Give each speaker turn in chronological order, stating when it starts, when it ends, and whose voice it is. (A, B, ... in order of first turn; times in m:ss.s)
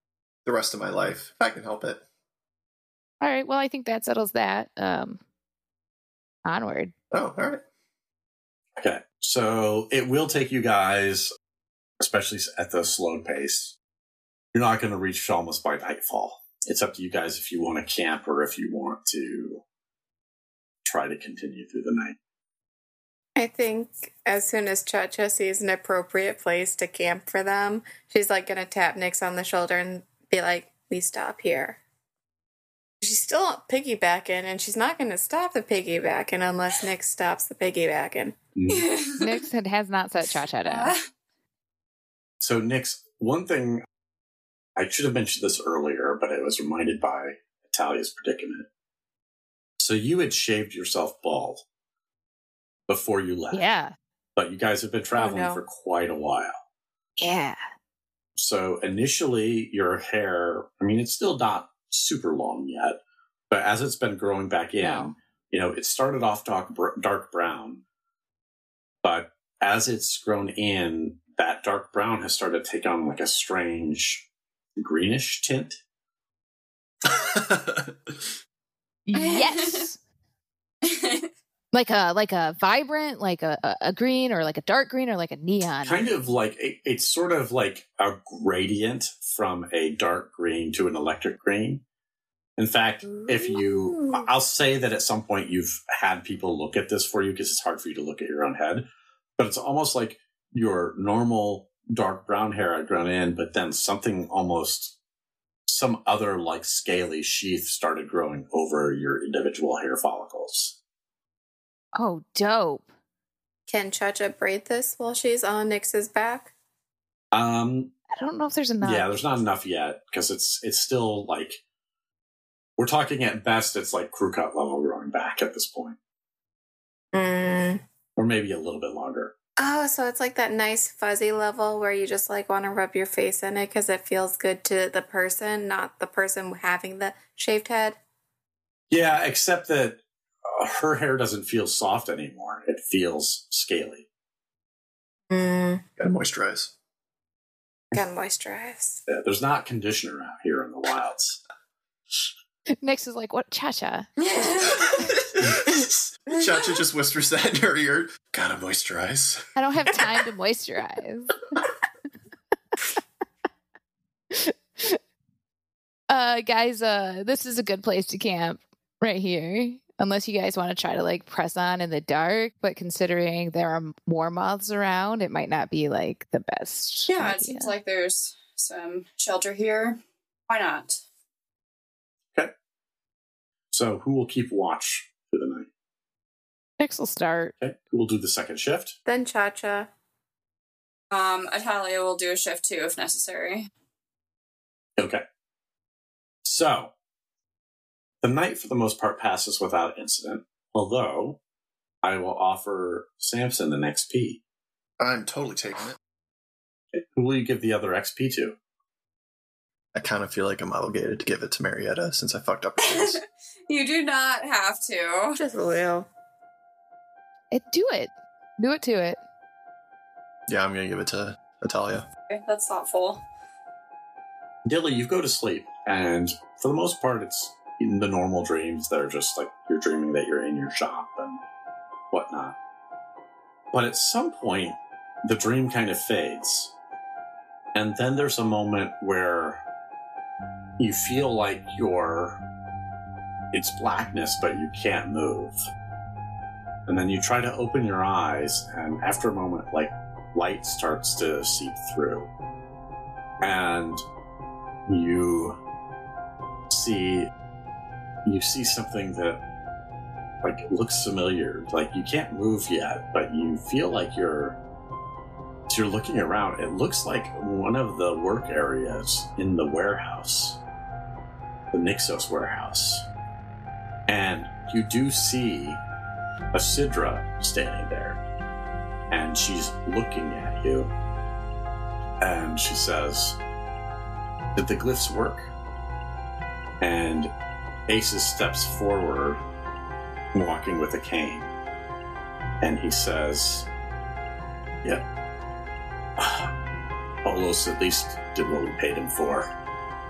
0:00.4-0:02.0 A
0:03.2-0:05.2 B
0:06.4-0:06.9 B
0:07.1-0:07.6 A
0:08.8-0:11.3 C
0:12.0-0:13.8 C
0:14.5-0:19.6 C
0:20.8-0:22.2 C
0:23.4-0:31.8 D
0:33.0-0:38.4 D
0:38.6-0:38.9 C
0:38.7-0:39.4 E
0:39.2-0:41.0 B
0:40.7-0:41.0 E
0:42.4-0:43.8 C
0:44.8-0:48.7 C
0:49.8-0:51.6 C
0:52.9-0:53.7 C
0:53.5-0:54.0 B
0:54.4-0:56.6 C
0:55.2-0:55.6 D
0:57.2-0:57.6 B
0:58.4-1:03.0 C
1:03.5-1:07.8 C
1:04.8-1:05.1 B
1:09.0-1:14.2 C
1:14.8-1:15.8 C
1:17.1-1:18.2 A
1:19.1-1:20.0 B
1:19.2-1:19.9 E
1:20.8-1:21.3 E
1:21.7-1:26.0 B
1:25.8-1:31.8 C
1:32.6-1:38.8 C
1:33.1-1:34.3 D
1:39.4-1:45.0 C
1:45.7-1:50.8 C
1:52.0-1:52.9 B
1:53.7-1:56.5 D
1:57.3-1:57.9 C
1:58.1-1:59.1 B
1:58.8-2:01.6 C
2:02.8-2:06.0 C
2:07.1-2:07.8 D
2:08.2-2:09.3 C
2:09.6-2:18.0 D
2:18.9-2:24.1 C
2:25.3-2:25.8 D
2:26.0-2:26.7 A
2:27.9-2:29.0 D
2:29.1-2:31.4 C
2:32.8-2:34.9 B
2:34.2-2:35.2 E
2:34.8-2:39.4 A
2:39.6-2:41.4 B
2:44.3-2:45.0 B
2:46.1-2:57.8 B
2:57.1-3:01.0 E
3:03.7-3:05.7 C
3:06.8-3:07.6 B
3:07.6-3:09.0 C
3:09.1-3:09.9 D
3:11.1-3:13.7 E
3:15.0-3:15.2 C
3:16.4-3:16.9 C
3:18.2-3:21.4 C
3:22.0-3:24.4 C
3:25.0-3:26.0 A
3:26.9-3:28.6 C
3:29.9-3:33.2 A
3:32.8-3:35.4 E
3:35.4-3:36.1 D
3:37.5-3:39.2 B
3:40.5-3:42.0 A
3:42.3-3:43.2 E
3:44.7-3:51.4 C
3:52.1-3:52.6 C
3:53.7-3:56.7 C
3:57.8-3:59.6 C
4:00.8-4:02.4 C
4:03.5-4:05.6 C
4:06.9-4:12.3 C
4:13.4-4:14.0 C
4:14.9-4:15.6 C
4:16.7-4:17.3 C
4:18.2-4:19.4 C
4:20.4-4:24.6 C
4:25.7-4:30.6 C
4:31.7-4:33.1 C
4:34.1-4:35.8 C
4:36.5-4:38.2 C
4:39.1-4:40.9 C
4:42.2-4:43.4 C
4:44.6-4:45.5 C
4:46.8-4:47.3 C
4:47.9-4:49.4 C
4:50.3-4:51.5 C
4:52.6-4:53.7 C
4:56.2-4:56.5 C
4:57.2-4:59.5 C